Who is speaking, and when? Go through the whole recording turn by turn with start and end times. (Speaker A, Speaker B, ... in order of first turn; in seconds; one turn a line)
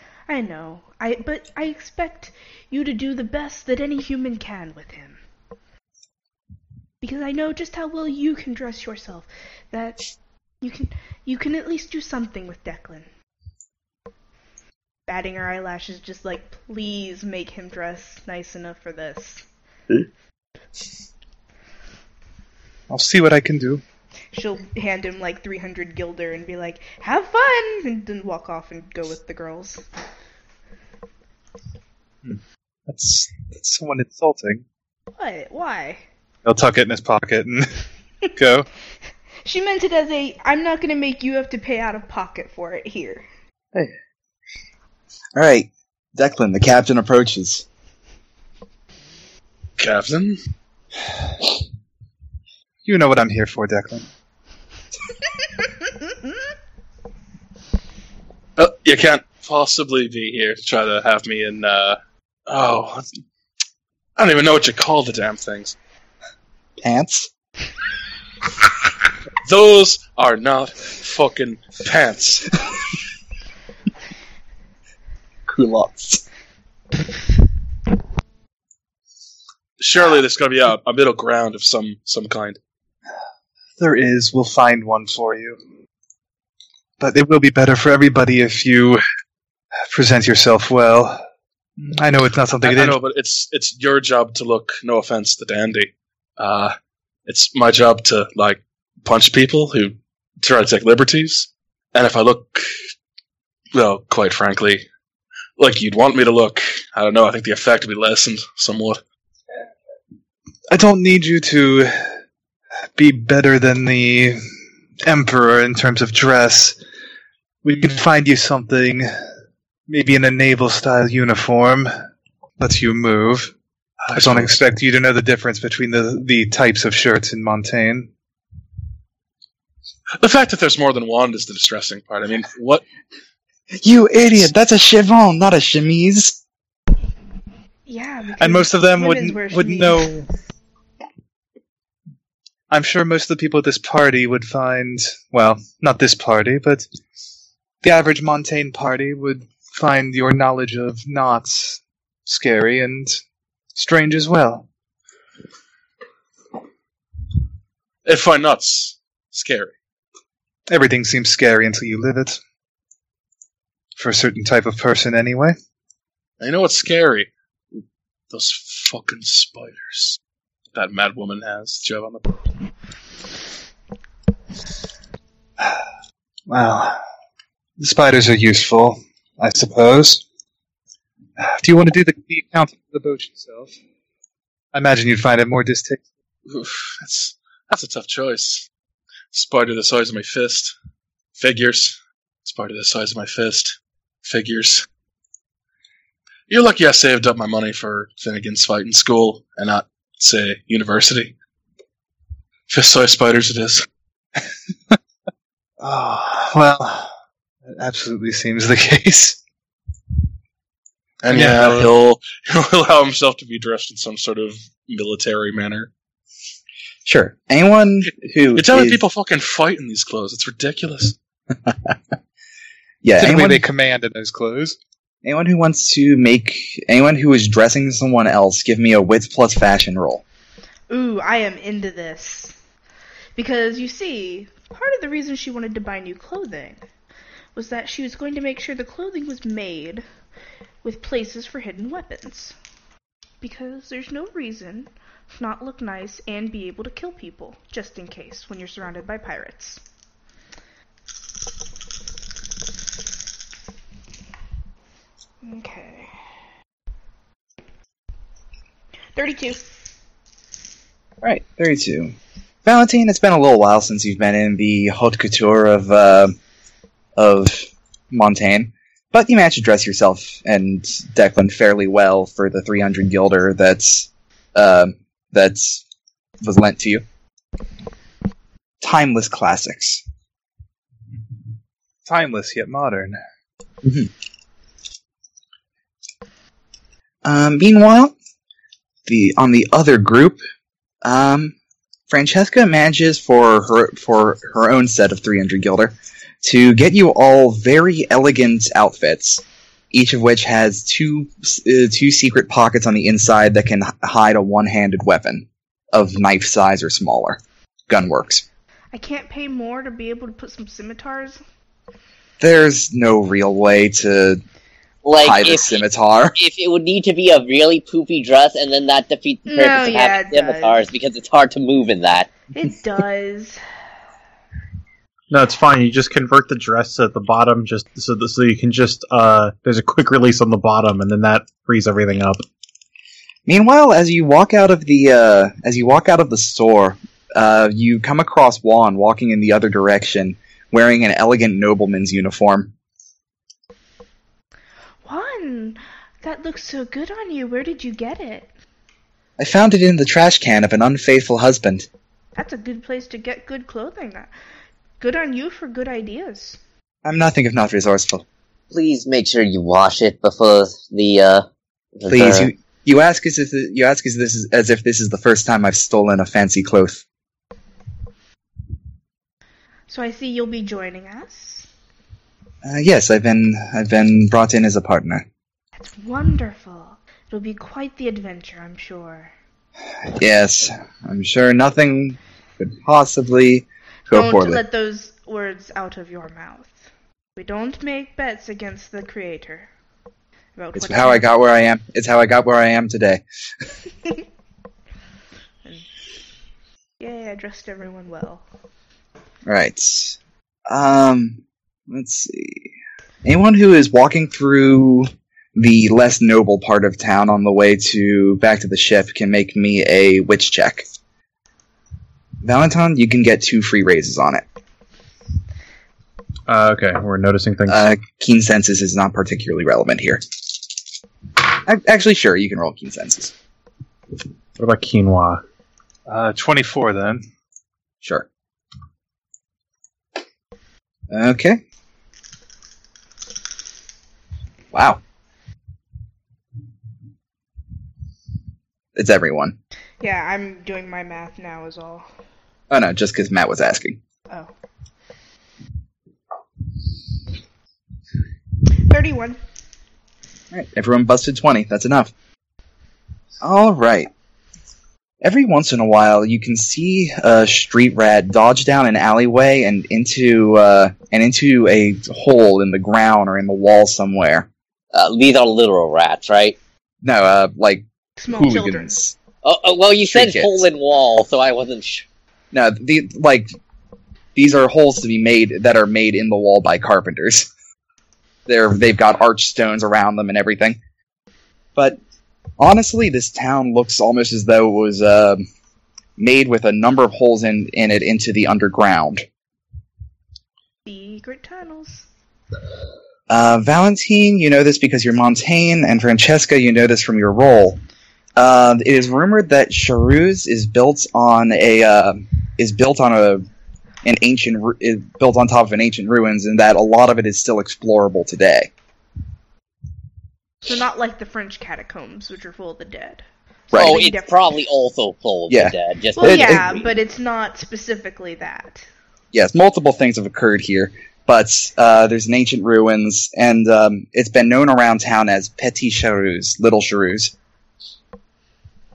Speaker A: 0.3-5.2
Speaker A: 7.0-13.1
Speaker A: 15.1-19.4
Speaker B: 22.9-23.8
Speaker A: 24.3-29.8
Speaker B: 32.2-34.6
Speaker A: 35.1-36.0
Speaker B: 36.4-37.7
Speaker B: 38.4-38.7
Speaker A: 39.4-43.2
Speaker C: 45.3-47.6
Speaker D: 49.8-50.4
Speaker B: 52.8-54.1
Speaker D: 58.6-63.1
Speaker D: 64.2-65.8
Speaker C: 66.8-67.3
Speaker D: 69.4-72.5
Speaker C: 75.5-76.2
Speaker D: 79.8-82.6
Speaker B: 83.8-85.6
Speaker B: 87.0-89.0
Speaker B: 89.9-91.2
Speaker B: 91.8-93.0
Speaker D: 92.6-96.7
Speaker D: 97.3-102.7
Speaker D: 103.7-104.8
Speaker D: 105.6-109.0
Speaker B: 110.7-111.9
Speaker B: 113.0-114.4
Speaker B: 115.0-116.8
Speaker B: 117.6-119.1
Speaker B: 119.9-121.9
Speaker B: 122.6-123.5
Speaker B: 124.0-128.1
Speaker D: 124.1-124.5
Speaker D: 130.2-132.8
Speaker C: 133.8-136.4
Speaker A: 137.9-140.1
Speaker B: 138.4-140.3
Speaker B: 142.7-146.9
Speaker B: 147.8-153.2
Speaker B: 153.7-154.7
Speaker D: 158.0-159.7
Speaker B: 160.7-162.4
Speaker B: 163.9-165.6
Speaker D: 166.4-167.3
Speaker D: 168.3-170.2
Speaker D: 170.7-172.3
Speaker B: 176.5-177.0
Speaker B: 177.8-180.2
Speaker B: 181.4-183.7
Speaker B: 184.7-186.0
Speaker D: 186.5-188.7
Speaker D: 189.3-190.7
Speaker D: 191.4-194.8
Speaker D: 196.5-201.3
Speaker D: 202.7-203.8
Speaker B: 205.8-207.1
Speaker B: 207.7-209.4
Speaker D: 211.2-215.9
Speaker B: 211.3-211.9
Speaker C: 217.0-219.0
Speaker D: 218.5-221.2
Speaker C: 223.0-223.6
Speaker B: 223.2-224.8
Speaker C: 225.2-230.2
Speaker A: 230.9-232.6
Speaker A: 233.3-236.8
Speaker A: 237.5-240.0
Speaker A: 240.8-242.6
Speaker A: 243.4-249.8
Speaker A: 255.4-256.1
Speaker A: 259.1-259.6
Speaker C: 261.2-266.3
Speaker C: 267.1-275.8
Speaker C: 276.4-277.0
Speaker C: 278.8-280.0
Speaker B: 282.1-283.2
Speaker C: 283.8-284.1
Speaker C: 287.2-288.1
Speaker C: 289.1-290.4
Speaker C: 291.0-291.5
Speaker C: 292.1-308.4
Speaker A: 308.9-311.4
Speaker C: 312.4-314.4
Speaker E: 315.0-315.8
Speaker C: 315.2-316.4
Speaker E: 316.3-322.3
Speaker A: 319.5-320.8
Speaker A: 322.5-323.6
Speaker F: 325.3-332.4
Speaker C: 333.4-342.7
Speaker A: 345.0-348.5
Speaker C: 349.4-351.9
Speaker A: 352.4-354.3
Speaker A: 355.0-356.6
Speaker C: 357.0-358.2
Speaker E: 358.7-361.4
Speaker E: 362.0-362.5
Speaker C: 362.1-367.0
Speaker A: 369.9-371.7
Speaker C: 372.6-375.2
Speaker A: 375.8-379.3
Speaker C: 380.1-384.6
Speaker A: 384.1-389.7
Speaker A: 390.6-391.3
Speaker C: 390.7-393.2
Speaker A: 397.0-398.4
Speaker C: 399.4-402.7
Speaker C: 403.2-410.8
Speaker C: 412.4-414.4
Speaker F: 416.5-417.8
Speaker C: 417.7-420.2
Speaker C: 421.5-423.3
Speaker F: 424.6-425.4
Speaker B: 426.1-427.2
Speaker C: 428.0-428.3
Speaker C: 431.1-431.6
Speaker C: 434.7-435.0
Speaker C: 438.9-439.6
Speaker A: 440.0-442.1
Speaker C: 442.7-444.0
Speaker A: 448.8-449.4
Speaker C: 450.5-452.1
Speaker C: 453.4-454.1
Speaker C: 455.2-464.5
Speaker E: 464.9-466.6
Speaker C: 467.0-469.1
Speaker A: 468.2-468.9
Speaker E: 469.4-472.1
Speaker C: 470.1-470.6
Speaker C: 472.5-473.5
Speaker C: 474.4-477.5
Speaker C: 478.5-480.8
Speaker C: 482.6-485.4
Speaker C: 486.2-489.2
Speaker A: 490.9-492.1
Speaker C: 493.3-497.8
Speaker C: 498.4-503.4
Speaker C: 504.0-508.7
Speaker A: 510.6-514.4
Speaker E: 513.7-516.9
Speaker C: 515.5-516.7
Speaker A: 516.2-518.9
Speaker C: 519.3-527.3